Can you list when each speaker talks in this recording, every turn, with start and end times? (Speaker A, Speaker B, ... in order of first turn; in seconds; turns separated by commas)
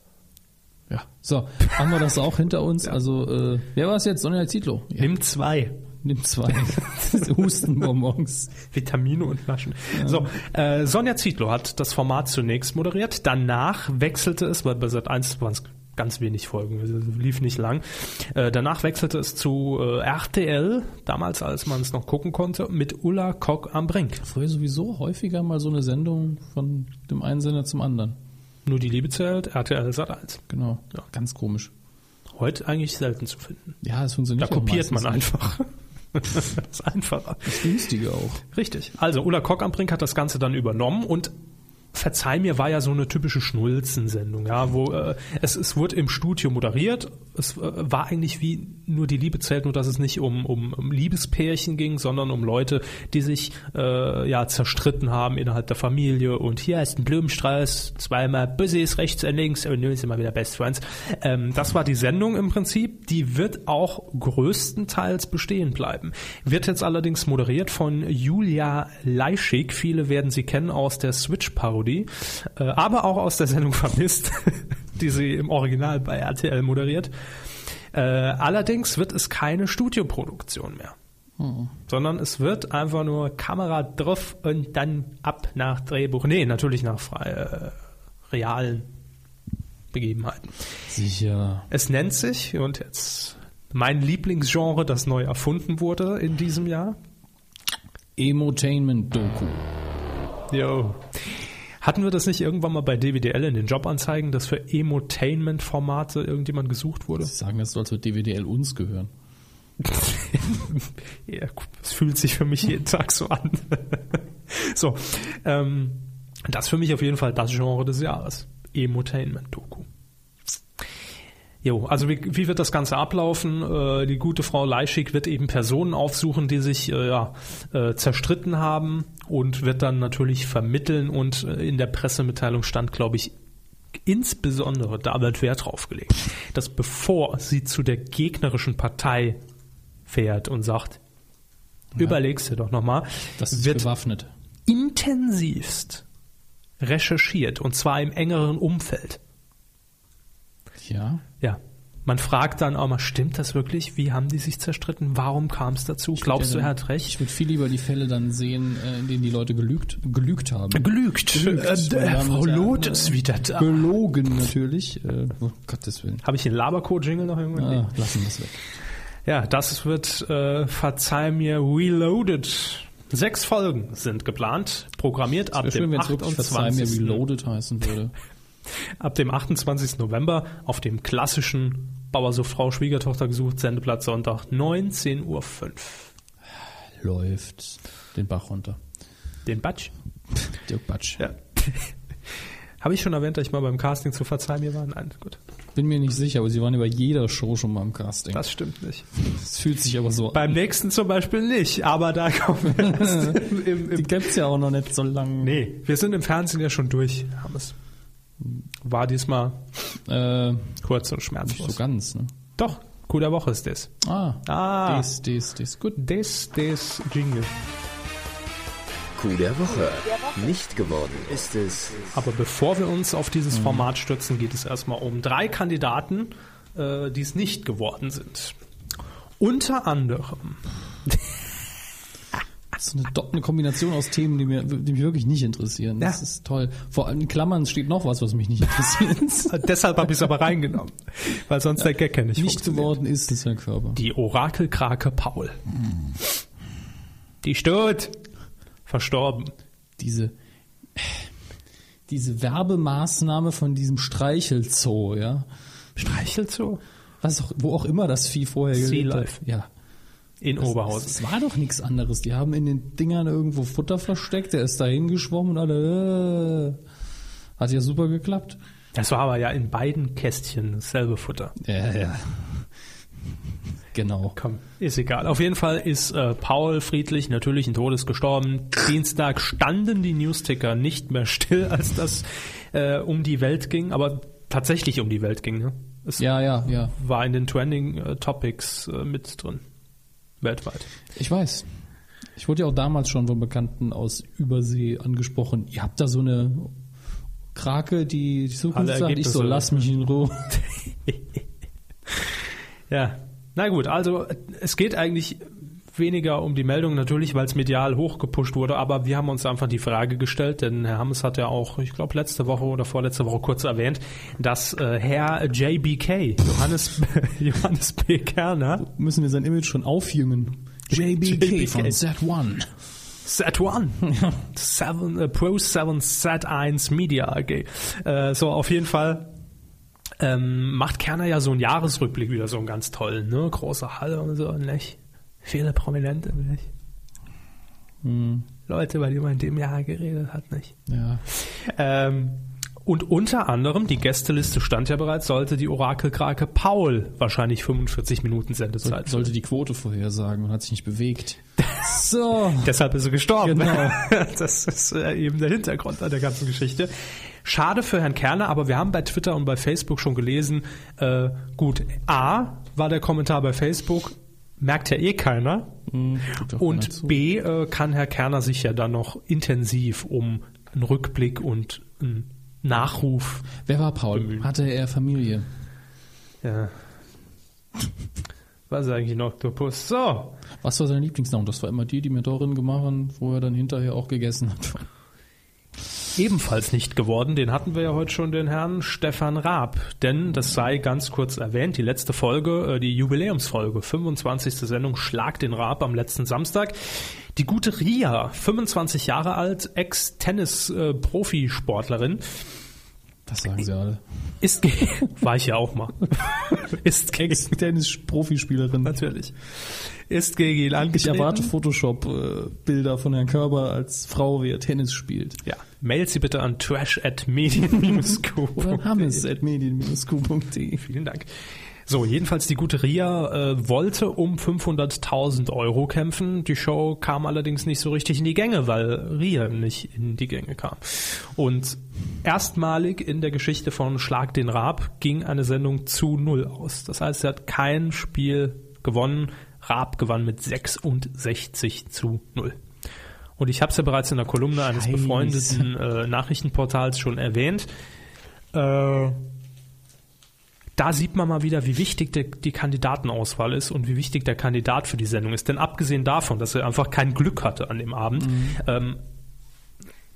Speaker A: 0.9-5.1, Speaker B: 5.0-5.8, Speaker A: 6.0-8.6, Speaker B: 8.7-24.2, Speaker A: 9.9-10.3, Speaker A: 24.2-28.2, Speaker B: 28.6-30.4, Speaker A: 30.5-31.7, Speaker B: 32.3-33.8, Speaker A: 33.8-35.3, Speaker B: 34.4-37.7, Speaker A: 37.4-38.4, Speaker B: 38.5-41.3, Speaker B: 41.9-77.1, Speaker B: 77.9-80.9, Speaker A: 81.4-81.7, Speaker B: 81.9-87.8, Speaker B: 88.3-88.9, Speaker B: 89.9-90.5, Speaker A: 90.9-91.7, Speaker B: 91.7-97.0, Speaker A: 98.2-99.7, Speaker B: 100.5-107.3, Speaker A: 107.2-109.1, Speaker B: 109.8-119.9, Speaker B: 121.6-133.3, Speaker B: 134.1-139.4, Speaker B: 140.1-141.0, Speaker B: 142.0-143.9, Speaker A: 143.4-144.3, Speaker B: 144.7-146.0, Speaker B: 146.8-149.2, Speaker A: 150.8-151.2, Speaker B: 151.4-157.1, Speaker A: 156.1-166.2, Speaker B: 160.7-163.8, Speaker B: 166.2-167.9, Speaker A: 167.6-168.6, Speaker B: 169.2-177.2, Speaker A: 175.6-178.1, Speaker B: 179.0-186.1, Speaker A: 187.0-188.8, Speaker B: 189.4-189.9, Speaker A: 190.5-191.2, Speaker B: 191.2-191.9, Speaker B: 192.8-195.4, Speaker A: 195.7-198.5, Speaker B: 198.3-199.1, Speaker A: 199.1-200.6, Speaker B: 200.3-204.2, Speaker A: 202.7-205.6, Speaker B: 205.4-207.7, Speaker B: 208.8-209.6, Speaker A: 209.9-210.8, Speaker B: 210.8-211.8, Speaker A: 211.4-212.3, Speaker B: 212.6-213.9, Speaker A: 214.0-216.0, Speaker B: 214.4-215.1, Speaker B: 215.9-217.5, Speaker C: 219.2-222.2, Speaker B: 222.1-228.6, Speaker A: 223.5-223.9, Speaker B: 229.4-231.2, Speaker A: 232.8-239.6, Speaker B: 239.5-242.9, Speaker A: 242.4-244.0, Speaker B: 243.9-245.6, Speaker B: 247.4-248.2, Speaker B: 248.9-249.5, Speaker A: 250.0-250.3, Speaker A: 250.9-251.3, Speaker A: 252.1-255.5, Speaker B: 256.0-256.8, Speaker A: 257.2-259.7, Speaker B: 258.7-259.4, Speaker B: 260.4-261.1, Speaker A: 260.6-266.8, Speaker A: 267.6-268.6, Speaker B: 268.9-271.6, Speaker A: 271.6-272.7, Speaker A: 273.9-274.4, Speaker B: 274.4-289.6, Speaker A: 286.2-286.9, Speaker B: 290.4-290.9, Speaker A: 291.1-291.7, Speaker A: 292.4-296.7, Speaker A: 297.6-300.6, Speaker B: 298.7-299.8, Speaker B: 302.9-318.9, Speaker A: 318.8-322.7, Speaker B: 320.9-322.0, Speaker B: 323.2-329.3, Speaker A: 324.1-324.3, Speaker B: 330.2-336.7, Speaker A: 338.0-338.5, Speaker B: 338.6-340.8, Speaker A: 340.9-341.2, Speaker B: 341.3-349.3, Speaker A: 348.8-352.7, Speaker B: 351.6-351.9, Speaker B: 352.5-356.9, Speaker A: 353.4-354.1, Speaker B: 357.4-365.7, Speaker A: 365.9-367.2, Speaker B: 366.3-373.5, Speaker A: 373.6-375.5, Speaker B: 374.1-374.5, Speaker B: 376.4-376.7, Speaker B: 378.7-380.4, Speaker A: 380.6-384.9, Speaker B: 386.1-402.4, Speaker A: 403.3-404.0, Speaker B: 404.4-407.5, Speaker A: 407.1-409.1, Speaker B: 408.8-411.5, Speaker A: 410.8-415.4, Speaker B: 415.4-419.2, Speaker A: 418.6-420.9, Speaker B: 420.8-421.3, Speaker B: 421.9-442.6, Speaker B: 443.4-447.7, Speaker A: 444.6-445.7, Speaker B: 448.5-449.2, Speaker B: 450.8-459.0, Speaker A: 458.2-458.6